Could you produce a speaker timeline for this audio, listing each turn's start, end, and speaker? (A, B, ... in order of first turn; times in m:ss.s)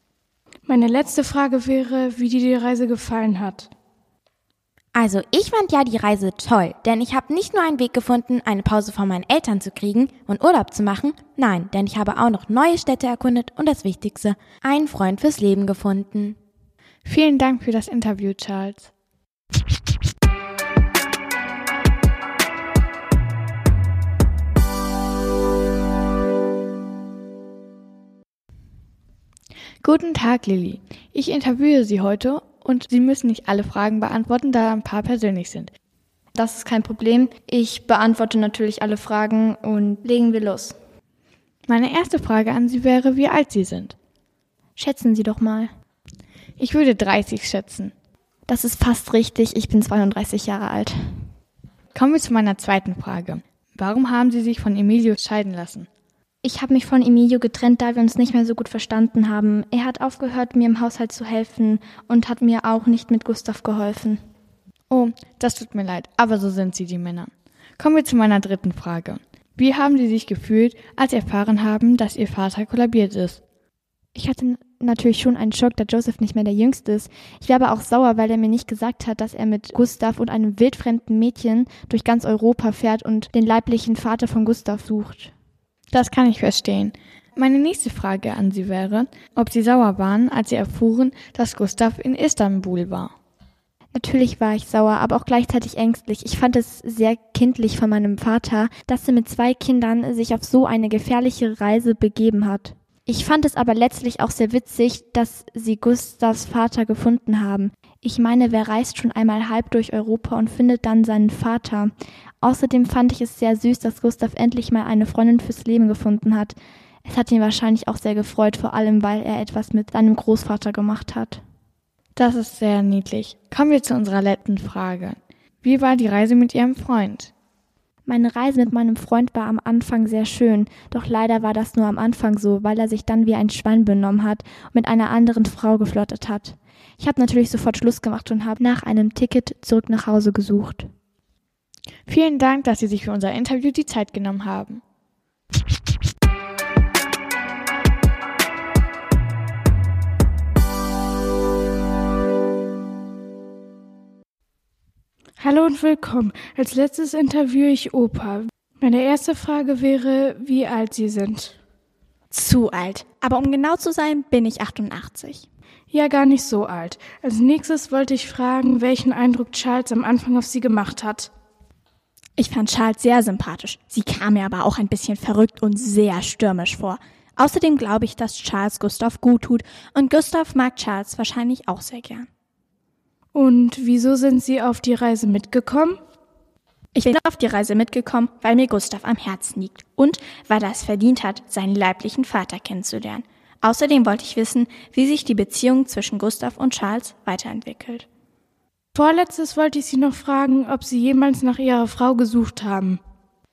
0:00.7-0:03.7 A
0:04.9-0:16.4 B
0:17.0-0:18.9 C
0:29.8-0:35.7 C
0:36.4-0:40.7 D
0:41.7-0:44.0 C
0:44.8-0:45.7 D
0:46.6-0:47.9 C
0:48.6-0:50.9 D
0:51.9-0:55.9 C
0:56.4-1:04.2 D
1:04.9-1:13.4 C
1:16.1-1:16.9 D
1:17.8-1:19.4 D
1:20.0-1:21.7 D
1:23.5-1:24.1 D
1:25.9-1:33.1 C
1:35.1-1:35.5 D
1:36.5-1:40.1 D
1:43.3-1:51.7 D
1:52.7-1:56.6 D
1:57.1-2:01.4 D
2:02.2-2:07.3 C
2:08.1-2:18.6 D
2:19.1-2:20.8 D
2:22.1-2:24.8 C
2:35.4-2:41.6 A
2:42.3-2:45.5 E
2:45.9-2:51.3 A
2:52.4-3:02.3 E
3:03.3-3:06.0 A
3:07.0-3:18.1 E
3:18.9-3:23.0 A